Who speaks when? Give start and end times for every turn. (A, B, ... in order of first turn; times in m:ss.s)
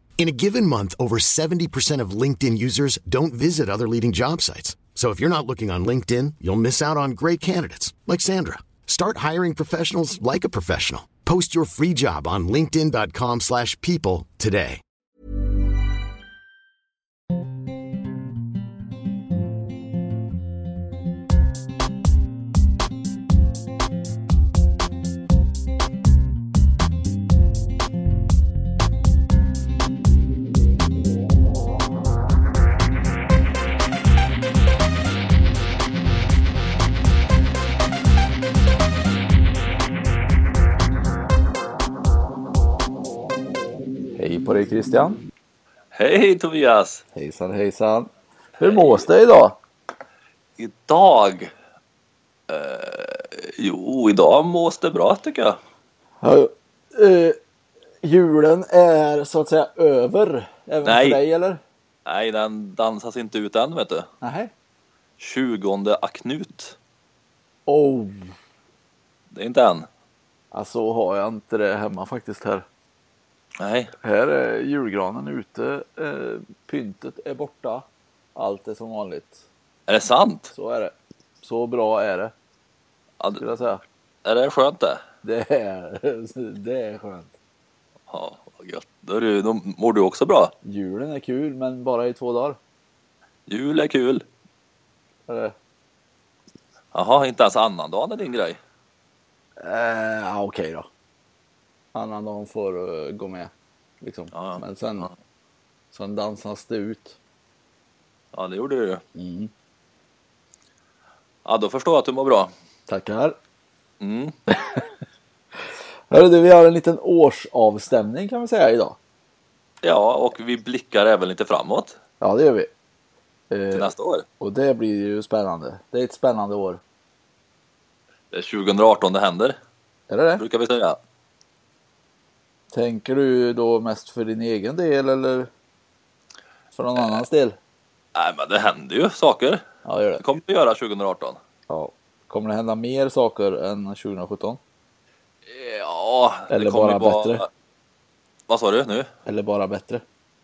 0:00.2-0:14.8 A
0:44.2-0:45.2 B
0:45.9-0:47.0 C
0:47.1-0:48.1 B
0:48.6-0:49.6 B
0:50.6-0:51.5 C
0:52.5-0:55.6 C
0:56.2-0:57.4 B
0:58.0-1:01.6 B
1:00.8-1:01.2 C
1:02.0-1:04.1 C
1:04.2-1:04.5 B
1:05.2-1:06.8 C
1:07.7-1:08.3 B
1:09.3-1:09.9 C
1:10.5-1:12.6 B
1:13.6-1:13.9 C
1:14.0-1:19.4 B
1:19.9-1:20.5 C
1:20.5-1:22.3 B
1:23.4-1:23.8 B
1:24.2-1:25.0 C
1:25.2-1:27.3 B
1:28.1-1:30.5 C
1:30.6-1:32.6 B
1:33.5-1:34.2 C
1:35.3-1:35.5 B
1:36.9-1:38.6 C
1:39.6-1:40.9 B
1:41.9-1:45.1 B
1:44.3-1:45.1 C
1:45.9-1:47.2 B
1:48.3-1:49.0 C
1:49.1-1:49.5 B
1:51.4-1:52.5 C
1:52.9-1:53.4 B
1:54.0-1:54.4 C
1:56.1-1:59.0 B
1:59.8-2:02.0 C
2:02.2-2:02.7 B
2:03.5-2:03.9 B
2:03.7-2:04.2 C
2:04.4-2:06.8 B
2:08.3-2:09.6 C
2:10.1-2:10.4 B
2:10.4-2:11.0 C
2:12.7-2:15.5 B
2:16.7-2:17.6 B
2:18.1-2:19.6 C
2:19.8-2:20.2 B
2:20.2-2:21.4 C
2:21.7-2:24.6 B
2:25.5-2:27.5 C
2:26.5-2:27.4 B
2:28.5-2:29.1 C
2:29.2-2:30.0 B